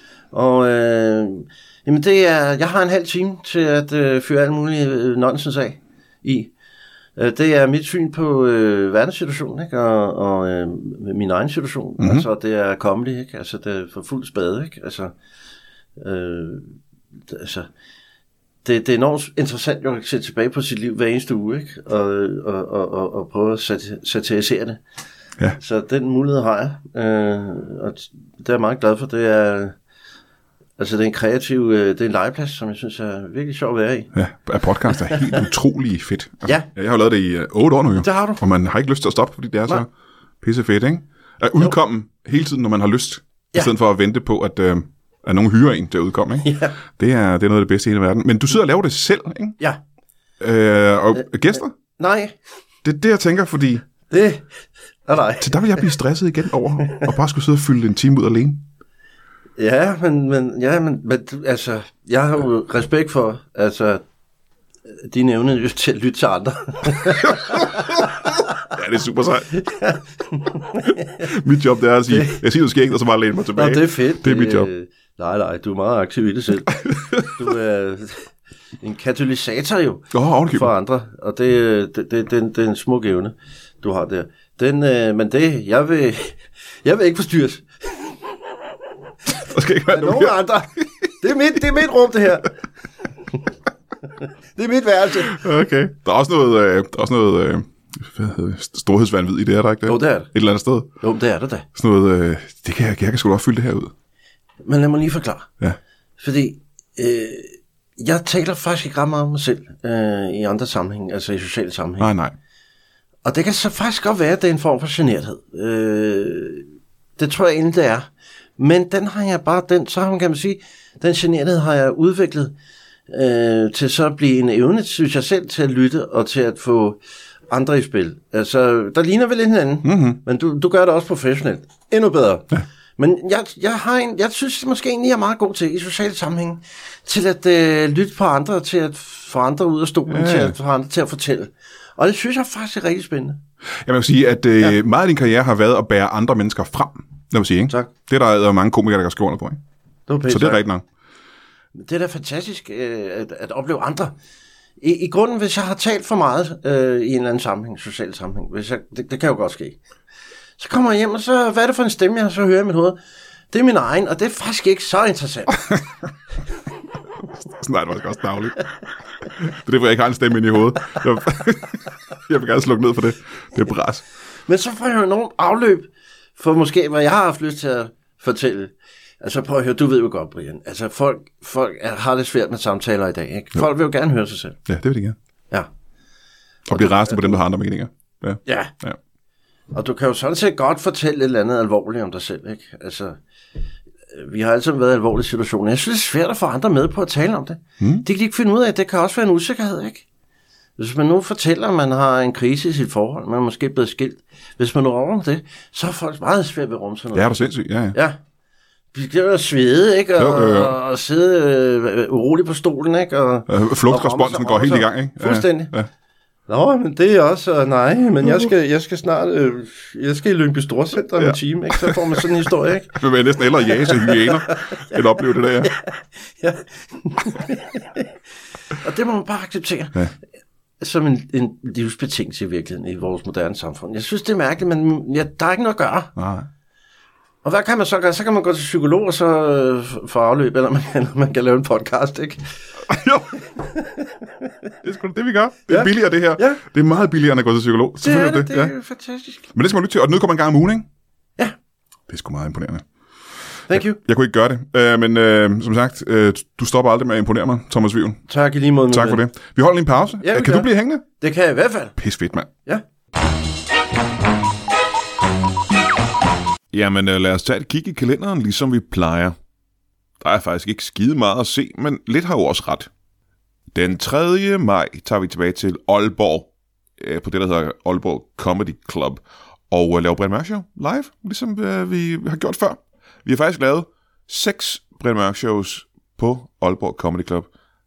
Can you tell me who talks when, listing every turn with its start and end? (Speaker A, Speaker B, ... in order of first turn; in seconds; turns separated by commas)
Speaker A: 0.3-6.5, Speaker A: 7.2-15.1, Speaker B: 12.0-12.3, Speaker A: 16.0-16.8, Speaker A: 17.3-17.7, Speaker A: 18.6-24.8, Speaker A: 25.6-29.8, Speaker A: 30.8-34.1, Speaker B: 34.1-39.9, Speaker A: 38.0-38.4, Speaker B: 40.4-49.6, Speaker A: 46.4-46.8, Speaker B: 50.4-51.7, Speaker A: 52.0-52.4, Speaker B: 52.8-53.8, Speaker A: 54.1-54.5, Speaker A: 55.1-55.9, Speaker B: 55.4-58.6, Speaker A: 59.6-64.0, Speaker A: 65.0-68.0, Speaker B: 67.5-68.1, Speaker B: 68.6-69.5, Speaker A: 69.6-71.2, Speaker B: 71.2-74.7, Speaker A: 72.1-72.4, Speaker A: 73.5-78.3, Speaker B: 76.8-77.3, Speaker A: 78.8-88.2, Speaker B: 80.1-80.7, Speaker B: 89.3-90.8, Speaker A: 89.9-92.5, Speaker A: 94.6-95.4, Speaker B: 95.2-100.9, Speaker A: 99.9-100.3, Speaker A: 101.0-101.7, Speaker B: 101.8-103.9, Speaker A: 104.6-105.5, Speaker A: 106.2-112.1, Speaker B: 112.0-112.3, Speaker A: 113.2-116.7, Speaker A: 117.2-122.5, Speaker A: 123.1-127.0, Speaker A: 127.5-143.4, Speaker B: 129.8-130.2, Speaker B: 140.1-140.6, Speaker B: 143.8-149.6, Speaker A: 150.1-150.6, Speaker B: 150.3-150.8, Speaker A: 151.8-154.1, Speaker A: 154.8-159.8, Speaker A: 160.6-163.0, Speaker A: 163.5-165.7, Speaker B: 167.2-168.7, Speaker B: 169.3-174.0, Speaker A: 174.5-184.6, Speaker B: 184.7-185.2, Speaker B: 186.7-189.0, Speaker A: 186.8-187.3, Speaker A: 188.4-188.7, Speaker A: 189.7-193.2, Speaker A: 194.1-200.0, Speaker B: 197.8-198.1, Speaker A: 200.8-207.4, Speaker B: 207.1-208.0, Speaker A: 207.9-208.2, Speaker A: 208.9-215.7, Speaker B: 210.2-210.8, Speaker B: 213.5-215.9, Speaker A: 216.5-222.9, Speaker B: 218.2-218.5, Speaker B: 221.2-222.0, Speaker B: 222.9-225.7, Speaker A: 223.9-224.6, Speaker A: 225.6-228.1, Speaker A: 228.8-230.0, Speaker A: 230.8-236.1, Speaker B: 236.2-236.5, Speaker A: 237.4-242.4, Speaker B: 242.9-243.3, Speaker A: 243.6-244.5, Speaker B: 244.8-248.7, Speaker A: 245.7-246.6, Speaker A: 248.0-249.4, Speaker B: 249.5-250.9, Speaker B: 252.1-252.8, Speaker A: 253.7-254.0, Speaker B: 253.7-258.2, Speaker A: 258.3-259.2, Speaker B: 258.9-261.0, Speaker A: 260.2-261.9, Speaker B: 262.0-262.5, Speaker B: 266.7-269.4, Speaker B: 270.2-272.9, Speaker B: 273.7-287.5